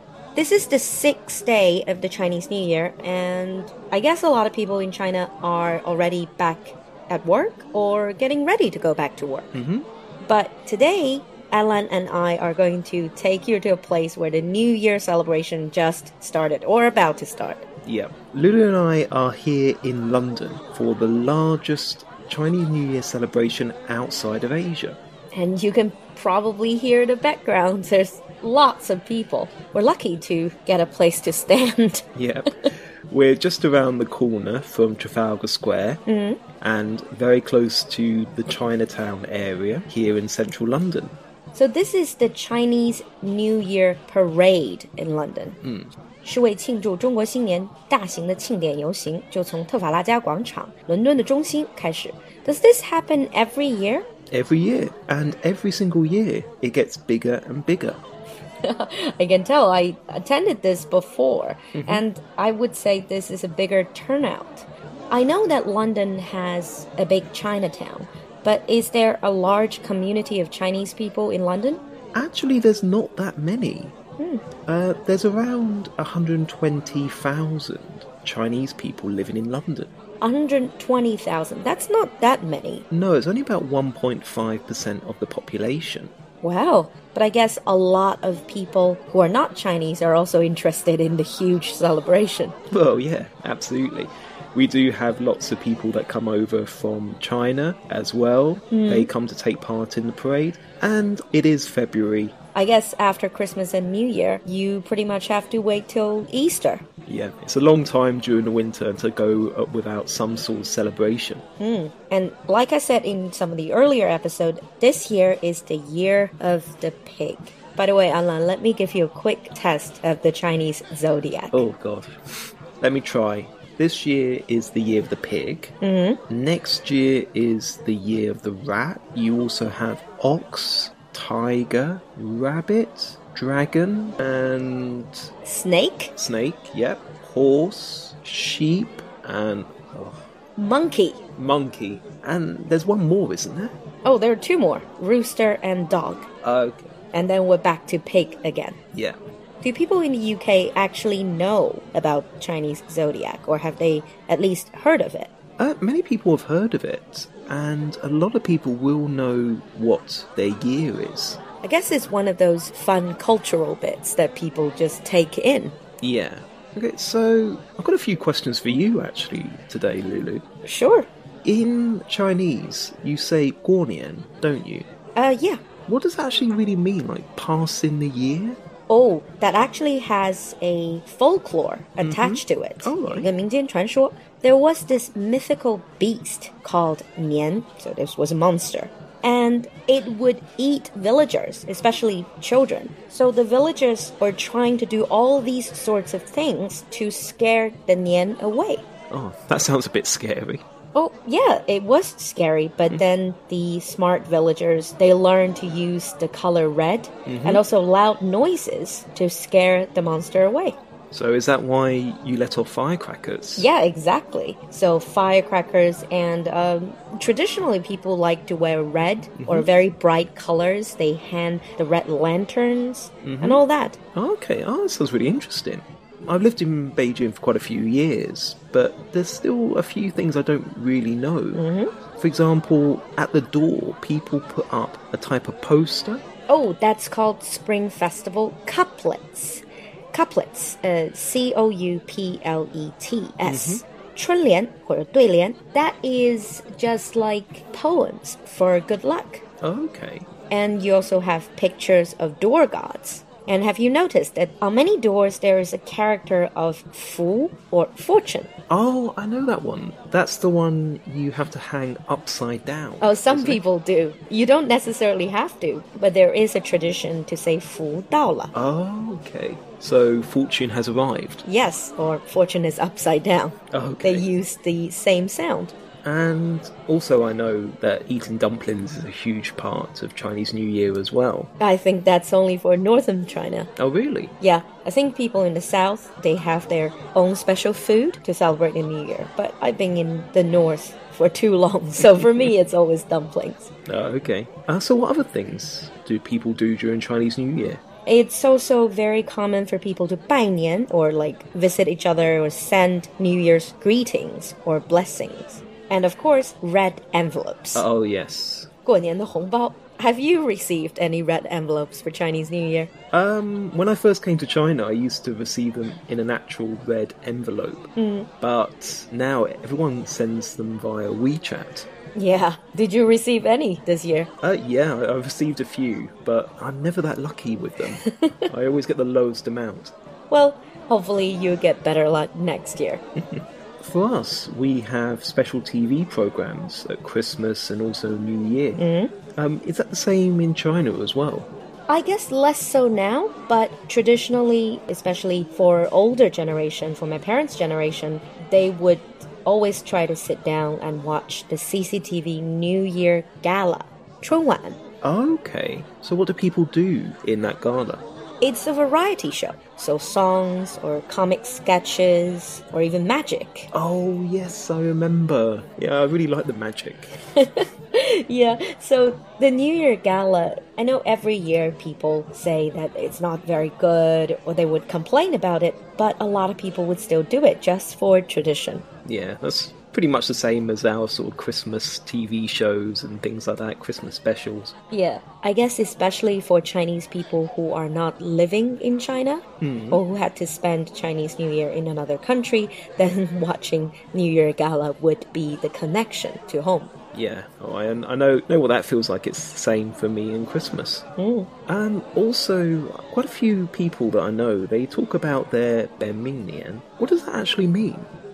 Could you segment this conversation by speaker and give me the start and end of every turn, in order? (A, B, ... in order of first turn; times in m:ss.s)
0:00.4-0:09.5 A
0:09.5-0:09.9 B
0:10.2-0:17.7 A
0:17.9-0:25.0 B
0:25.3-0:32.1 A
0:32.2-0:36.0 B
0:36.1-0:36.4 A
0:36.6-0:41.2 B
0:41.5-0:45.6 A
0:45.6-0:45.9 B
0:46.2-0:54.1 A
0:54.3-0:58.0 B
0:58.6-1:11.8 A
1:01.8-1:02.0 B
1:12.2-1:13.9 B
1:14.2-1:14.4 A
1:14.7-1:19.9 B
1:20.2-1:22.9 A
1:22.9-1:26.1 B
1:26.4-1:32.6 A
1:32.7-1:42.4 B
1:38.7-1:39.1 A
1:42.6-1:46.8 A
1:47.1-1:51.4 B
1:51.6-2:01.6 A
2:01.5-2:05.7 B
2:05.8-2:06.2 A
2:06.3-2:15.3 B
2:15.4-2:16.1 A
2:16.2-2:20.3 B
2:20.6-2:21.2 A
2:21.4-2:23.7 B
2:24.0-2:26.3 A
2:26.4-2:26.9 B
2:27.1-2:28.8 A
2:29.6-2:35.3 A
2:35.6-2:41.4 B
2:41.6-2:45.8 A
2:46.0-2:50.4 B
2:50.6-2:51.1 A
2:51.4-2:54.9 B
2:55.2-2:55.6 A
2:55.9-2:58.6 B
2:58.9-3:18.8 A
3:02.0-3:03.3 B
3:19.1-3:20.6 B
3:21.0-3:30.8 A
3:27.3-3:27.6 B
3:31.1-3:33.7 B
3:33.6-3:44.0 A
3:39.4-3:39.7 B
3:43.2-3:43.6 B
3:44.2-3:51.6 B
3:51.5-3:51.9 A
3:52.2-3:56.2 B
3:56.5-4:09.4 A
4:03.4-4:03.8 B
4:09.6-4:10.3 B
4:10.5-4:18.5 A
4:18.7-4:23.6 B
4:23.0-4:28.5 A
4:28.5-4:31.4 B
4:31.4-4:35.7 A
4:33.7-4:34.3 B
4:36.0-4:41.5 B
4:41.6-4:43.7 A
4:43.8-4:44.3 B
4:44.4-4:53.7 A
4:53.9-4:57.8 B
4:58.1-5:07.8 A
5:07.8-5:08.7 B
5:08.9-5:12.9 A
5:13.1-5:17.9 B
5:18.0-5:18.3 A
5:18.4-5:21.9 B
5:22.2-5:24.3 A
5:24.4-5:29.9 B
5:28.0-5:28.5 A
5:30.3-5:33.0 A
5:33.2-5:38.8 B
5:38.8-5:39.1 A
5:39.4-5:41.5 B
5:41.9-5:54.8 A
5:55.0-5:58.0 B
5:58.4-6:03.7 A
6:03.7-6:07.2 B
6:07.4-6:18.8 A
6:19.1-6:24.7 B
6:24.9-6:36.9 A
6:29.6-6:30.0 B
6:37.1-6:41.0 B
6:41.2-6:41.5 A
6:41.7-6:48.1 B